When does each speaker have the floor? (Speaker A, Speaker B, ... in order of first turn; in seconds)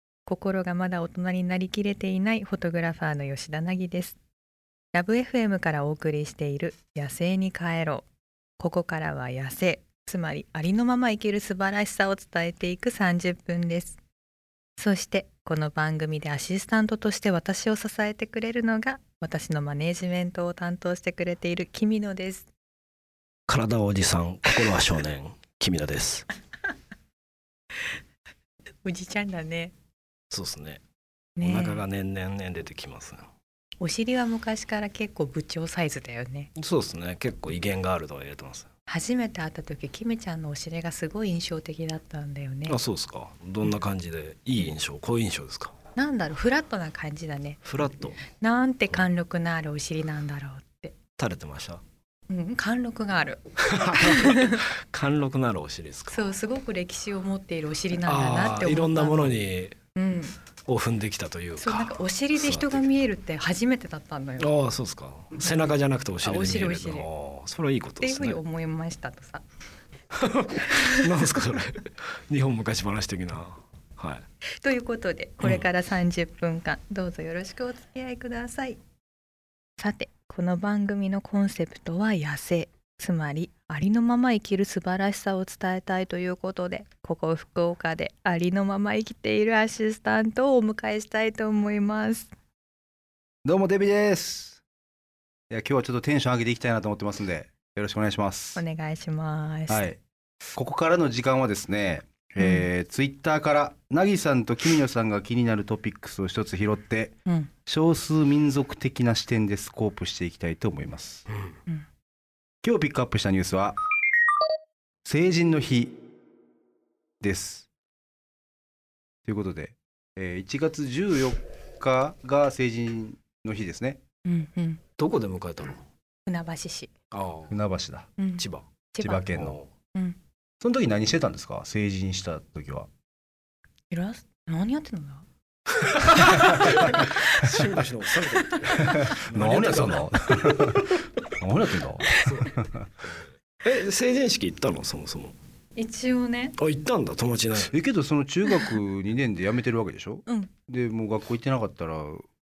Speaker A: 0.2-4.2, 4.9-8.1, 8.6-14.0, 14.8-22.5, 28.8-29.7, 31.4-31.8, 33.8-36.5, 38.9-42.8, 46.0-47.6, 48.3-51.0, 52.3-53.4, 54.0-54.6, 56.1-59.4, 59.9-60.4, 61.6-64.5, 66.2-67.1, 68.0-69.4, 74.6-78.8, 79.8-92.3, 98.5-99.9, 102.4-102.7, 124.2-124.8, 126.2-126.9, 128.2-129.3, 133.9-135.2, 136.1-137.5, 145.8-146.6, 150.2-150.5
Speaker B: 23.5-26.3, 30.3-30.8, 31.4-33.2, 36.5-38.7, 42.7-45.7, 47.6-48.2, 51.2-51.8, 53.6-56.3, 57.9-59.7, 60.7-62.8, 64.4-68.4, 70.2-74.2, 125.0-125.8, 127.1-127.5, 128.4-128.7, 129.3-129.7, 136.0-140.9, 142.1-142.5, 143.6-145.3, 146.6-147.7
Speaker C: 93.4-94.6, 95.5-98.6, 99.7-100.0, 100.5-111.2, 112.6-113.8, 115.0-116.0, 117.2-117.7, 119.2-124.0, 127.5-128.1, 129.0-129.6, 130.6-132.9, 138.9-142.9, 147.5-152.2